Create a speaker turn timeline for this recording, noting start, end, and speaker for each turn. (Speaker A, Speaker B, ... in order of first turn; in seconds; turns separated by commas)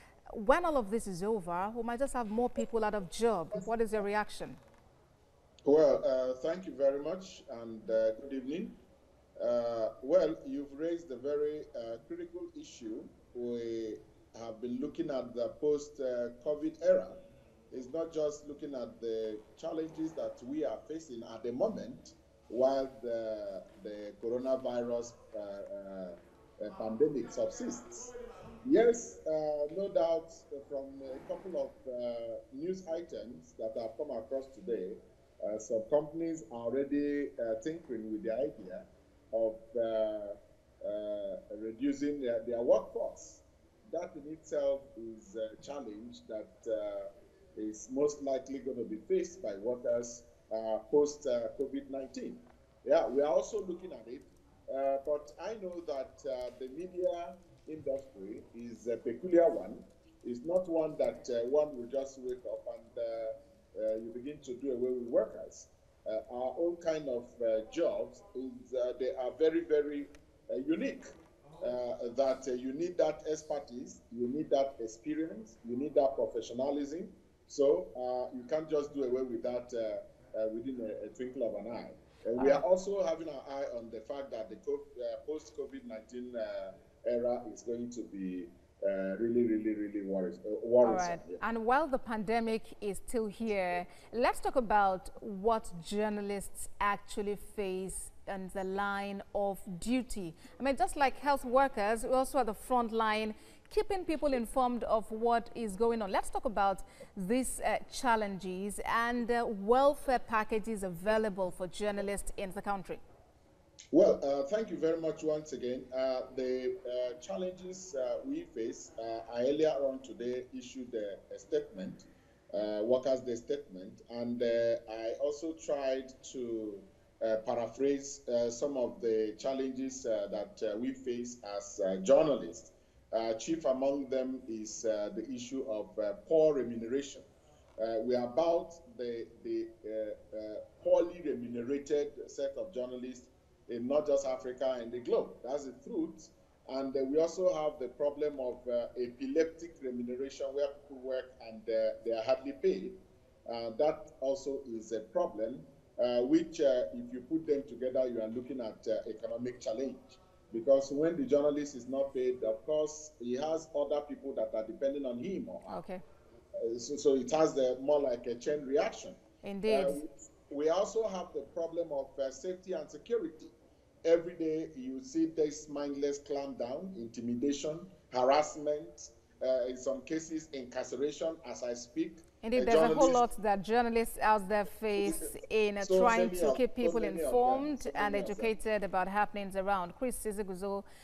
Speaker A: 0.3-4.6, Speaker B: 5.7-8.8, Speaker B: 9.4-28.1, Speaker B: 28.6-71.1, Speaker B: 71.6-91.4, Speaker A: 82.4-82.6, Speaker A: 90.8-113.0, Speaker B: 113.9-137.3, Speaker B: 137.8-165.8, Speaker A: 165.7-166.0, Speaker B: 166.6-173.5, Speaker A: 169.4-170.0, Speaker B: 174.0-183.2, Speaker A: 182.4-190.8, Speaker B: 185.0-188.5